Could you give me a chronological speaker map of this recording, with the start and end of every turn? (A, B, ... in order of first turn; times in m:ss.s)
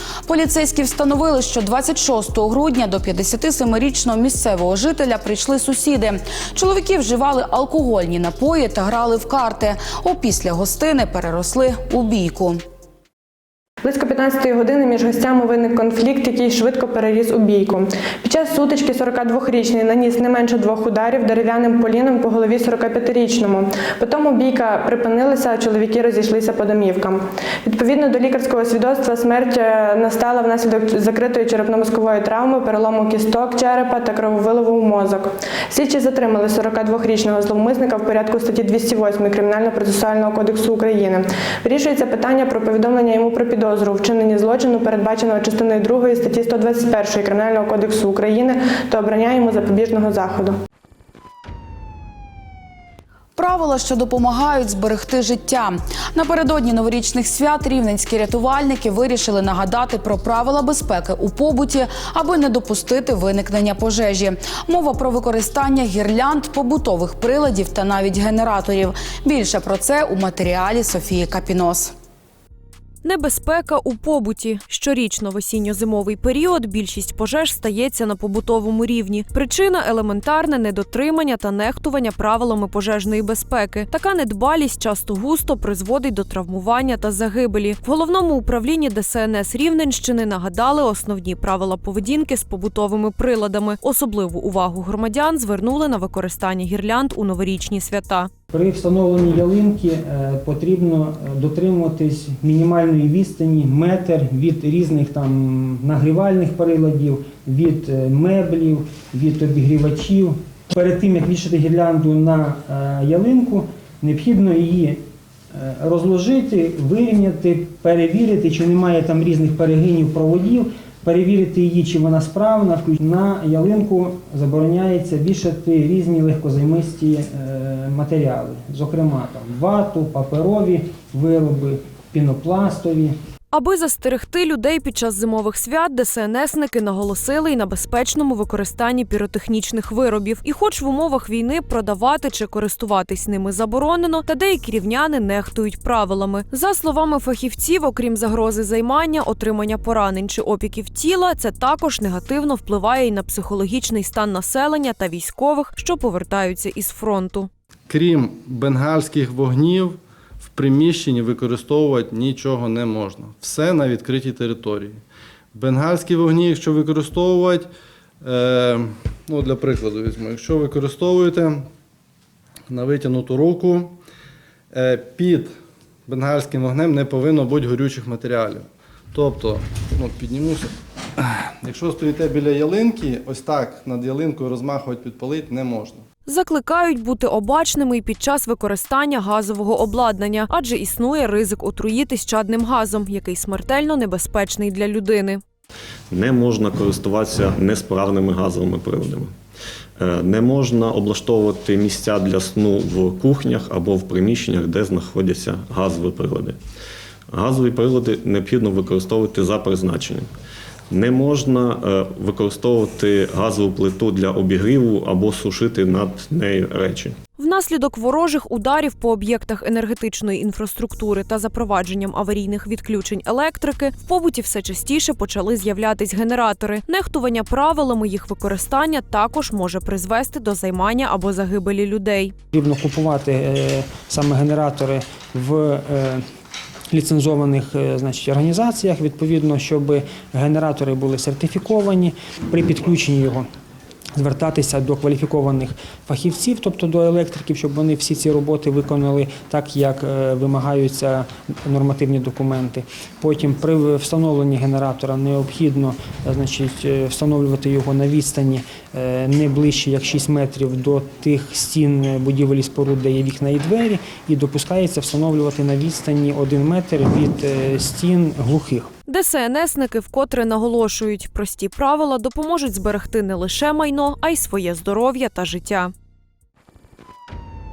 0:00.2-0:12.6 A
0:13.8-0:50.6 B
0:53.4-1:11.9 A
1:13.0-1:38.3 C
1:38.5-1:55.0 D
1:55.5-2:13.2 D
2:13.5-2:37.5 C
2:37.9-2:40.0 E
2:40.5-2:45.0 E
2:45.5-2:47.7 E
2:48.2-2:51.7 E
2:52.7-2:54.0 E
2:54.7-2:55.5 E
2:56.1-3:06.0 E
3:06.2-3:15.4 C
3:16.1-3:19.3 F
3:20.0-3:26.6 F
3:27.3-3:30.3 F
3:30.9-3:37.2 F
3:37.4-3:52.3 C
3:52.5-3:56.2 D
3:56.9-4:03.5 D
4:04.2-4:28.9 D
4:29.0-4:35.9 C